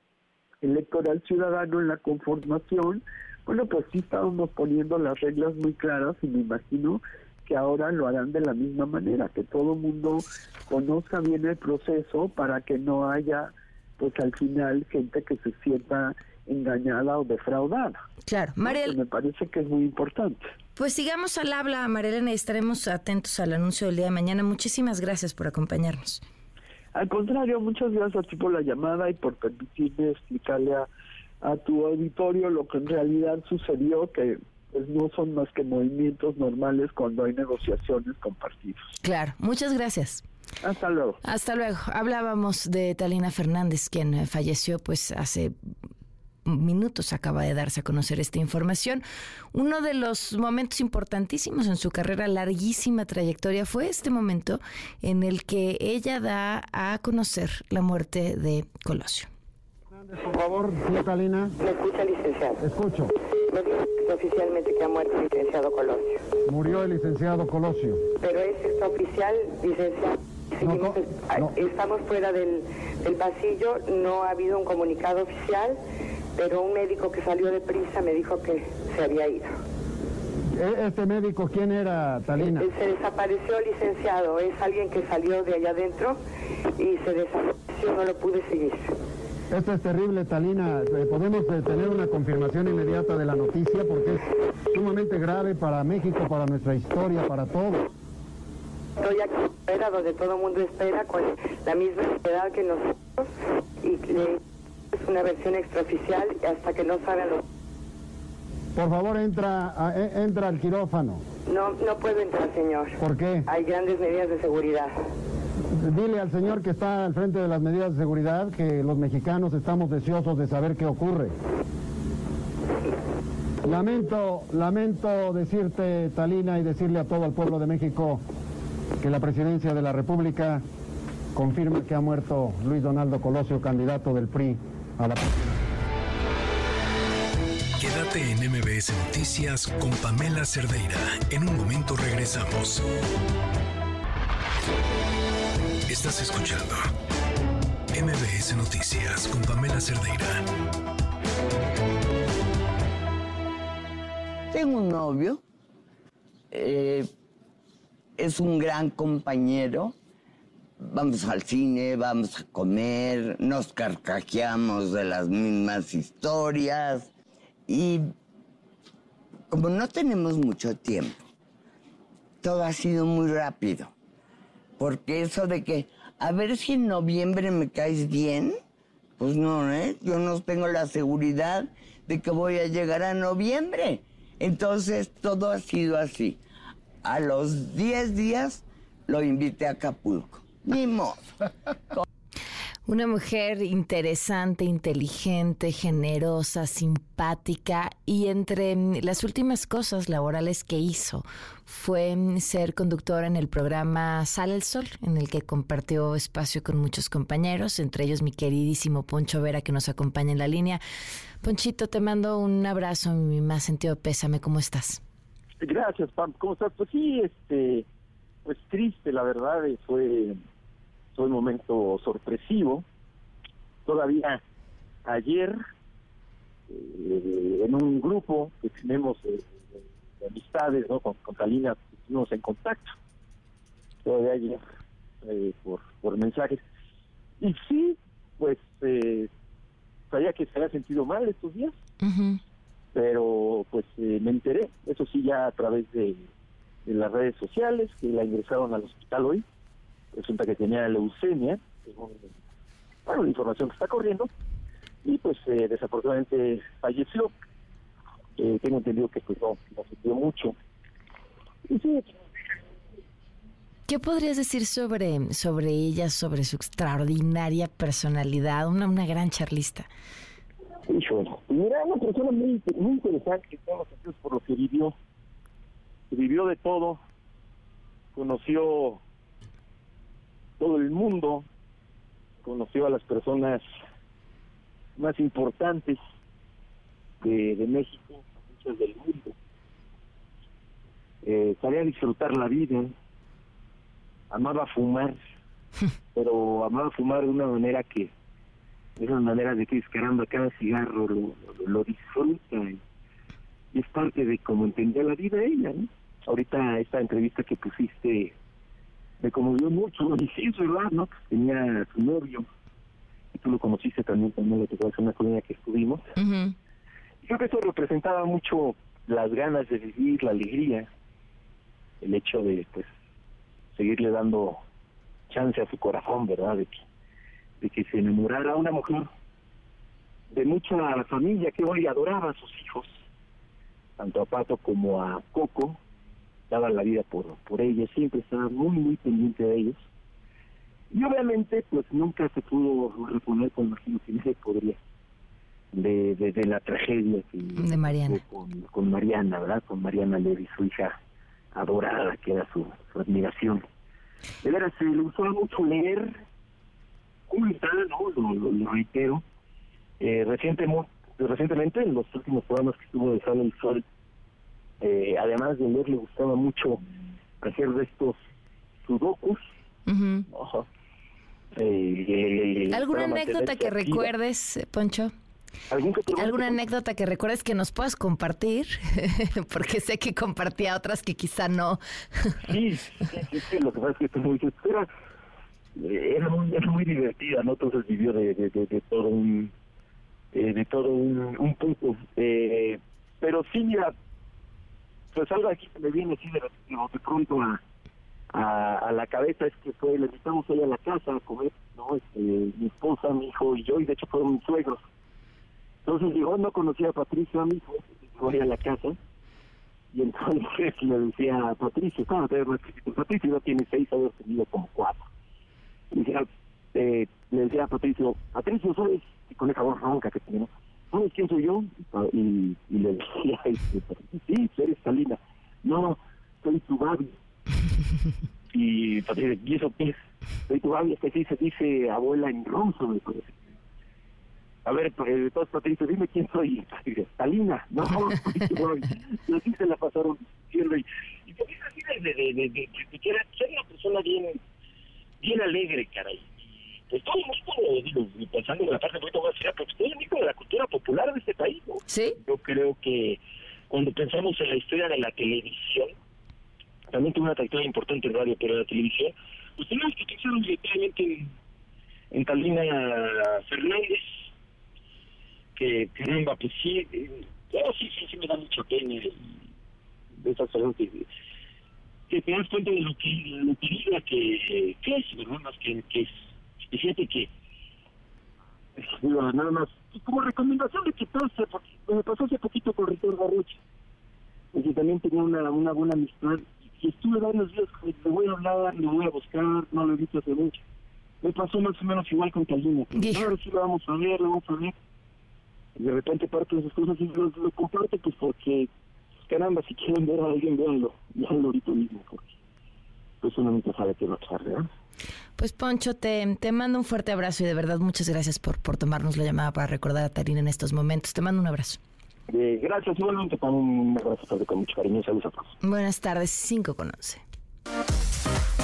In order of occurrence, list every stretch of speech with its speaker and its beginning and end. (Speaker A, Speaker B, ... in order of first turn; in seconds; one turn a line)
Speaker A: 0.6-18.0
Speaker B: 18.2-18.9
Speaker A: 18.6-20.5
Speaker B: 20.8-26.2
Speaker A: 26.9-30.9
Speaker A: 31.4-38.9
Speaker B: 39.0-40.2
Speaker A: 40.6-41.2
Speaker B: 41.2-45.5
Speaker B: 46.5-49.0
Speaker B: 49.5-59.3
Speaker C: 59.9-61.5
Speaker D: 61.6-62.6
Speaker C: 62.6-63.1
Speaker D: 63.5-66.2
Speaker C: 66.5-68.0
Speaker D: 68.2-75.8
Speaker C: 70.6-71.5
Speaker D: 76.3-79.5
Speaker C: 80.5-82.7
Speaker D: 82.4-86.2
Speaker D: 86.8-88.9
Speaker C: 89.5-97.9
Speaker D: 99.0-103.3
Speaker D: 103.8-104.4
Speaker D: 104.9-107.4
Speaker C: 108.7-111.2
Speaker D: 111.5-114.9
Speaker C: 113.0-113.5
Speaker C: 115.8-121.3
Speaker C: 123.6-128.2
Speaker C: 129.0-130.6
Speaker C: 131.3-135.3
Speaker E: 137.8-142.8
Speaker E: 145.9-146.8
Speaker E: 147.9-150.4
Speaker F: 154.5-155.4
Speaker F: 156.5-157.1
Speaker F: 158.2-159.9
Speaker F: 160.8-167.1
Speaker F: 167.7-168.1
Speaker F: 169.5-171.2
Speaker F: 172.4-173.9
Speaker F: 174.8-178.6
Speaker F: 179.2-186.4
Speaker F: 187.0-191.3
Speaker B: 192.8-210.8
Speaker B: 211.4-215.0
Speaker G: 215.6-217.8
Speaker G: 218.4-220.4
Speaker G: 221.2-222.8
Speaker G: 223.8-224.4
Speaker G: 225.0-225.6
Speaker G: 226.7-232.9
Speaker G: 234.0-234.6
Speaker G: 235.2-236.6
Speaker G: 237.4-239.3
Speaker G: 240.1-241.7
Speaker B: 242.0-242.4
Speaker G: 242.9-246.3
Speaker G: 246.8-249.4
Speaker G: 250.1-252.2
Speaker G: 253.1-254.3
Speaker G: 255.0-257.3
Speaker G: 258.4-260.5
Speaker B: 263.9-269.9
Speaker G: 270.9-274.9
Speaker G: 276.1-277.0
Speaker G: 278.1-279.0
Speaker G: 280.6-281.4
Speaker G: 282.4-283.7
Speaker G: 285.0-286.0
Speaker G: 287.2-289.3
Speaker G: 291.2-292.9
Speaker G: 294.3-295.2
Speaker G: 296.1-298.1
Speaker G: 299.0-302.8
Speaker G: 303.7-308.3
Speaker G: 309.2-312.5
Speaker G: 313.3-316.1
Speaker B: 316.1-316.5
Speaker G: 317.2-320.9
Speaker G: 322.0-322.9
Speaker G: 323.7-324.6
Speaker G: 325.3-326.8
Speaker G: 327.6-329.1
Speaker G: 330.3-333.0
Speaker G: 334.0-335.8
Speaker G: 336.5-339.8
Speaker G: 340.9-344.8
Speaker G: 345.7-350.9
Speaker B: 347.6-348.2
Speaker G: 351.5-353.6
Speaker G: 354.4-356.2
Speaker G: 357.3-359.2
Speaker G: 360.0-363.8
Speaker G: 364.8-366.8
Speaker G: 367.4-368.1
Speaker G: 368.9-369.4
Speaker B: 369.9-370.3
Speaker G: 370.3-370.6
Speaker G: 371.5-374.1
Speaker B: 372.7-375.1
Speaker G: 375.7-376.6
Speaker B: 376.1-382.2
Speaker G: 382.4-384.9
Speaker G: 385.8-389.5
Speaker G: 390.3-393.9
Speaker G: 395.1-397.6
Speaker G: 398.3-404.8
Speaker G: 405.9-408.9
Speaker G: 409.9-415.1
Speaker G: 415.9-427.1
Speaker G: 428.5-430.0
Speaker G: 430.5-433.4
Speaker G: 434.6-444.4
Speaker G: 445.2-446.3
Speaker G: 446.9-453.2
Speaker B: 451.9-452.1
Speaker G: 453.7-455.9
Speaker G: 456.9-461.3
Speaker G: 462.1-464.1
Speaker G: 465.6-469.3
Speaker G: 470.2-471.1
Speaker G: 472.1-476.1
Speaker G: 476.7-477.3
Speaker G: 478.8-483.6
Speaker G: 484.5-490.6
Speaker G: 491.2-494.7
Speaker B: 492.9-493.3
Speaker G: 495.8-498.7
Speaker G: 499.3-502.3
Speaker G: 503.2-504.7
Speaker B: 505.4-511.8
Speaker G: 512.3-515.5
Speaker B: 515.6-517.2